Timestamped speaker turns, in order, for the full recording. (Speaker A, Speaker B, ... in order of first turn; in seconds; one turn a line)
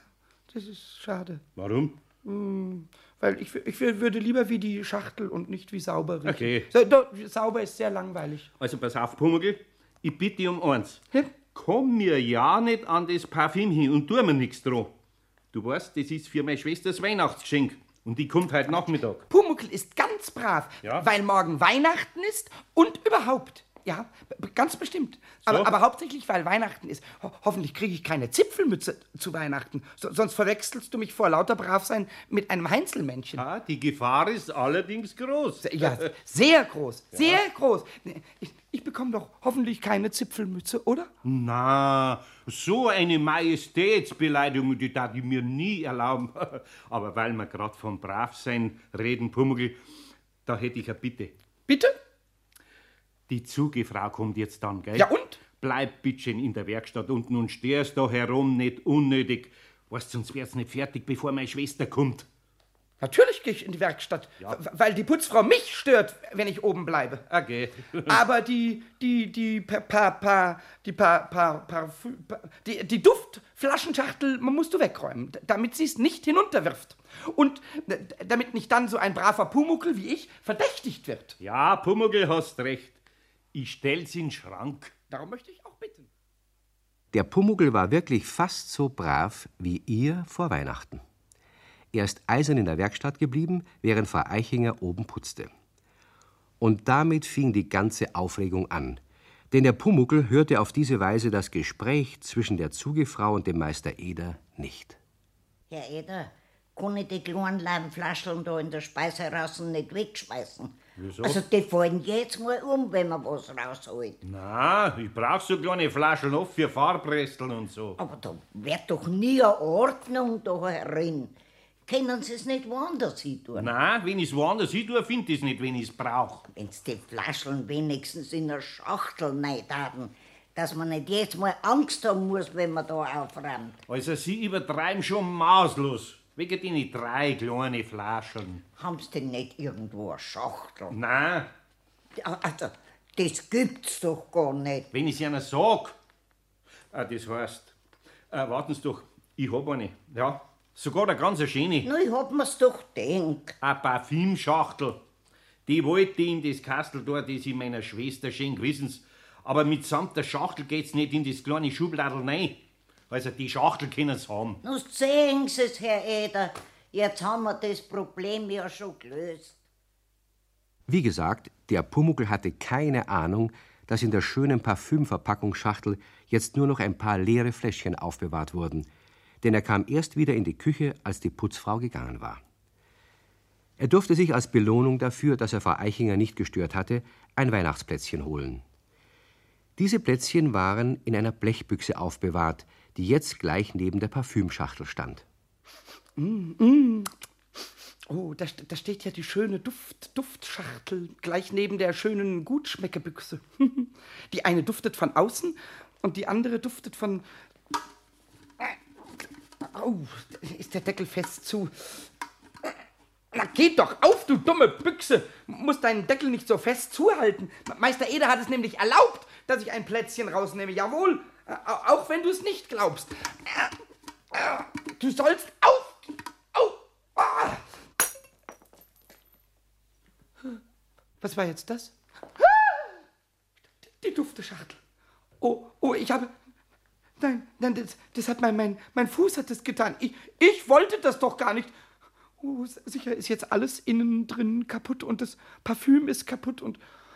Speaker A: 0.5-1.4
Speaker B: 1.6-2.0
Speaker A: 2.2-8.5
Speaker B: 6.2-6.7
Speaker B: 8.6-14.9
Speaker B: 15.5-19.2
Speaker A: 19.3-33.4
Speaker B: 25.5-25.7
Speaker B: 33.4-36.0
Speaker A: 35.6-41.1
Speaker B: 37.1-37.4
Speaker B: 41.2-49.8
Speaker B: 50.5-51.3
Speaker A: 51.7-51.9
Speaker B: 53.3-62.3
Speaker A: 55.0-55.4
Speaker A: 63.0-67.2
Speaker B: 67.3-68.2
Speaker A: 68.0-81.3
Speaker B: 81.4-83.0
Speaker B: 83.5-84.9
Speaker A: 85.1-86.1
Speaker C: 87.1-91.0
Speaker C: 91.9-95.5
Speaker C: 96.6-99.0
Speaker C: 99.5-105.0
Speaker D: 105.7-114.2
Speaker B: 111.0-111.4
Speaker B: 114.2-118.0
Speaker D: 118.0-121.3
Speaker D: 121.9-123.7
Speaker B: 123.5-126.5
Speaker D: 126.5-133.8
Speaker B: 133.9-138.6
Speaker D: 138.8-140.9
Speaker B: 140.9-141.5
Speaker D: 142.2-144.9
Speaker B: 144.9-146.0
Speaker B: 146.9-147.7
Speaker B: 148.3-151.9
Speaker D: 151.8-153.6
Speaker B: 153.6-155.0
Speaker B: 155.7-164.6
Speaker D: 164.6-169.6
Speaker C: 170.9-178.9
Speaker C: 179.4-182.4
Speaker C: 183.8-188.6
Speaker C: 189.8-195.2
Speaker A: 196.2-197.1
Speaker A: 198.1-207.2
Speaker A: 209.6-212.1
Speaker A: 213.3-223.7
Speaker A: 224.3-227.6
Speaker A: 231.2-233.0
Speaker A: 234.0-234.8
Speaker A: 235.4-236.3
Speaker A: 237.2-241.7
Speaker A: 242.4-246.8